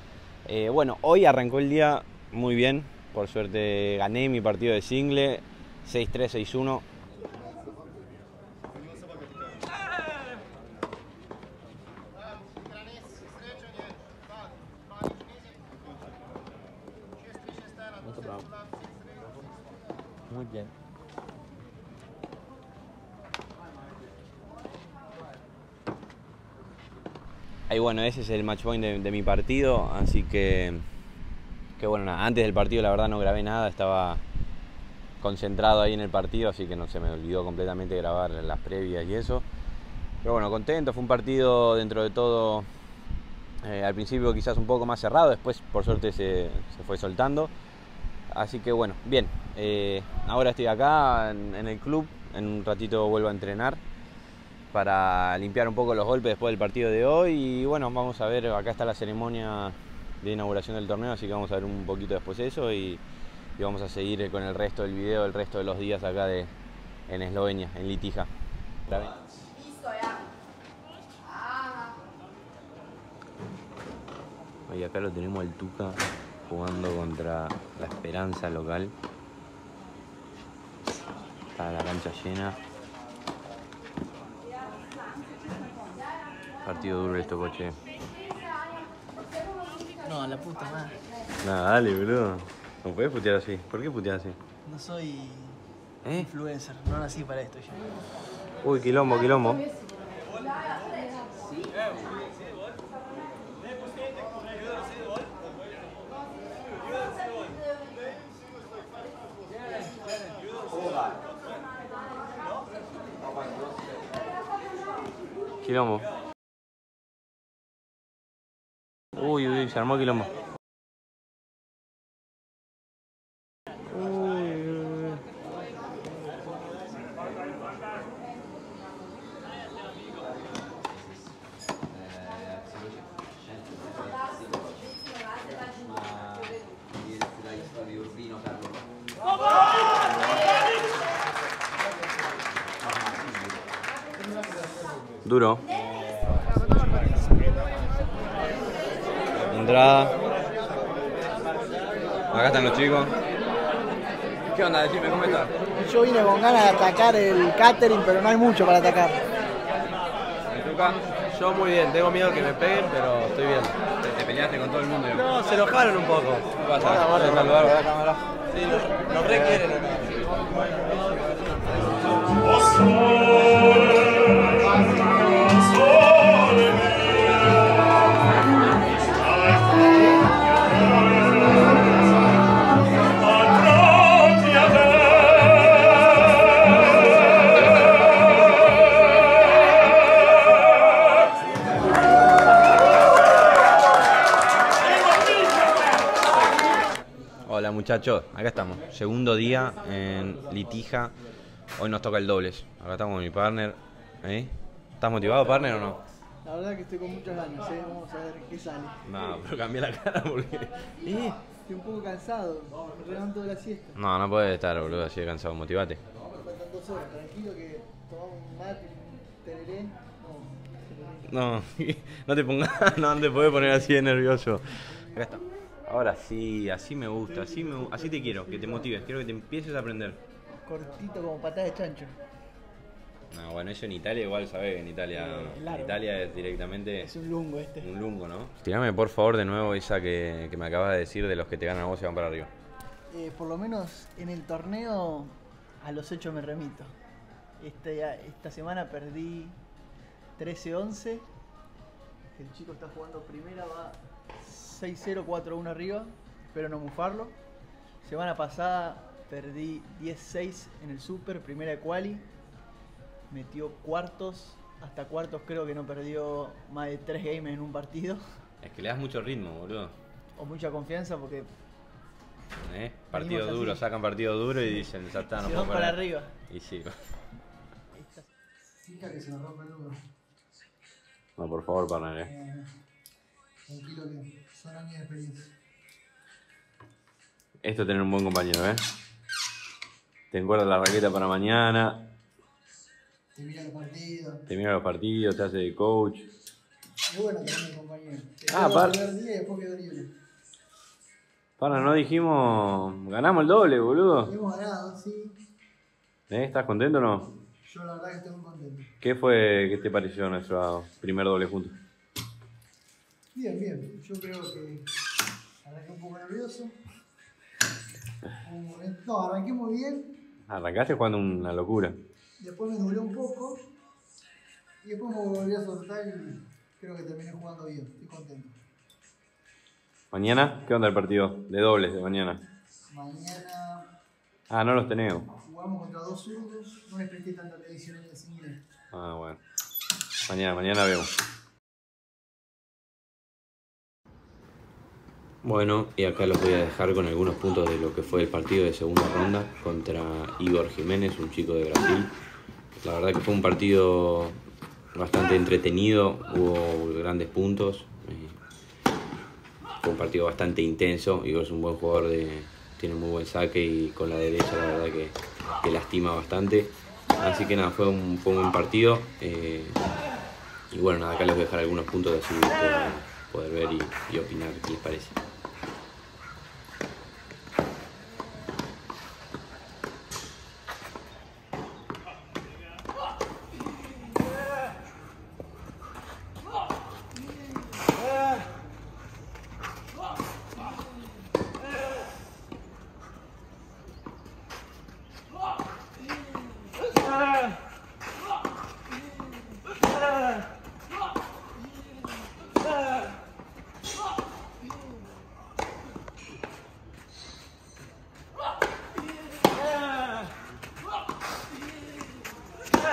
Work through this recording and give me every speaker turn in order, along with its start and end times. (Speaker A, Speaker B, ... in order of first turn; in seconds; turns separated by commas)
Speaker A: 0.5-6.8, Speaker A: 27.7-30.9, Speaker A: 31.8-34.2, Speaker A: 35.2-39.5, Speaker A: 40.2-42.7, Speaker A: 43.6-47.5, Speaker A: 48.3-53.8, Speaker A: 54.7-63.0, Speaker A: 63.6-66.5, Speaker A: 67.1-68.3, Speaker A: 68.9-69.2, Speaker A: 74.7-78.9, Speaker A: 81.6-82.6, Speaker A: 86.6-87.8, Speaker B: 90.0-91.0, Speaker A: 91.4-94.4, Speaker B: 94.7-95.6, Speaker A: 96.0-96.3, Speaker B: 96.2-97.9, Speaker A: 98.6-99.7, Speaker A: 115.6-116.1, Speaker A: 119.2-120.3, Speaker A: 123.9-125.2, Speaker A: 132.0-133.0, Speaker A: 136.1-136.5, Speaker A: 145.2-145.7, Speaker A: 149.4-150.2, Speaker A: 152.3-153.2, Speaker A: 154.5-155.6, Speaker B: 155.7-159.3, Speaker A: 160.5-161.0, Speaker C: 161.4-163.8, Speaker A: 164.0-165.3, Speaker B: 165.4-165.8, Speaker A: 166.5-168.2, Speaker C: 169.7-170.1, Speaker A: 197.4-201.2, Speaker A: 201.8-206.0, Speaker B: 206.4-209.0, Speaker A: 209.1-211.4, Speaker B: 211.7-214.0, Speaker A: 214.0-216.0, Speaker B: 216.4-221.3, Speaker A: 221.3-230.2, Speaker B: 227.3-229.0, Speaker B: 230.7-232.2, Speaker A: 233.3-237.1, Speaker B: 235.2-236.0, Speaker B: 237.0-237.9, Speaker A: 237.8-242.5, Speaker B: 243.1-246.9, Speaker B: 247.6-249.6, Speaker B: 250.4-251.3, Speaker B: 252.3-257.4, Speaker B: 258.0-262.3, Speaker B: 263.3-268.2, Speaker A: 268.6-270.0, Speaker B: 270.4-271.5, Speaker A: 272.6-277.0, Speaker B: 273.1-273.8, Speaker B: 274.8-276.3, Speaker B: 277.9-278.3, Speaker B: 278.8-280.0, Speaker A: 281.4-282.3, Speaker B: 282.2-282.7, Speaker B: 283.7-285.5, Speaker A: 287.6-288.9, Speaker A: 290.3-292.0, Speaker B: 293.3-294.4, Speaker A: 294.5-296.2, Speaker B: 297.1-300.1, Speaker A: 298.5-299.0, Speaker A: 301.6-304.3, Speaker B: 304.3-305.4, Speaker A: 306.3-307.3, Speaker B: 307.6-308.9, Speaker A: 309.0-311.8, Speaker B: 313.3-314.9, Speaker B: 315.6-316.8, Speaker B: 318.4-320.1, Speaker A: 320.5-322.0, Speaker B: 322.4-323.7, Speaker B: 324.8-328.6, Speaker A: 330.1-332.4, Speaker B: 332.9-333.9, Speaker A: 334.5-335.3, Speaker B: 335.4-338.6, Speaker A: 338.9-339.4, Speaker A: 340.3-341.1, Speaker A: 345.4-352.1, Speaker A: 352.8-354.4, Speaker A: 354.9-358.4, Speaker A: 359.8-369.8, Speaker A: 370.7-375.2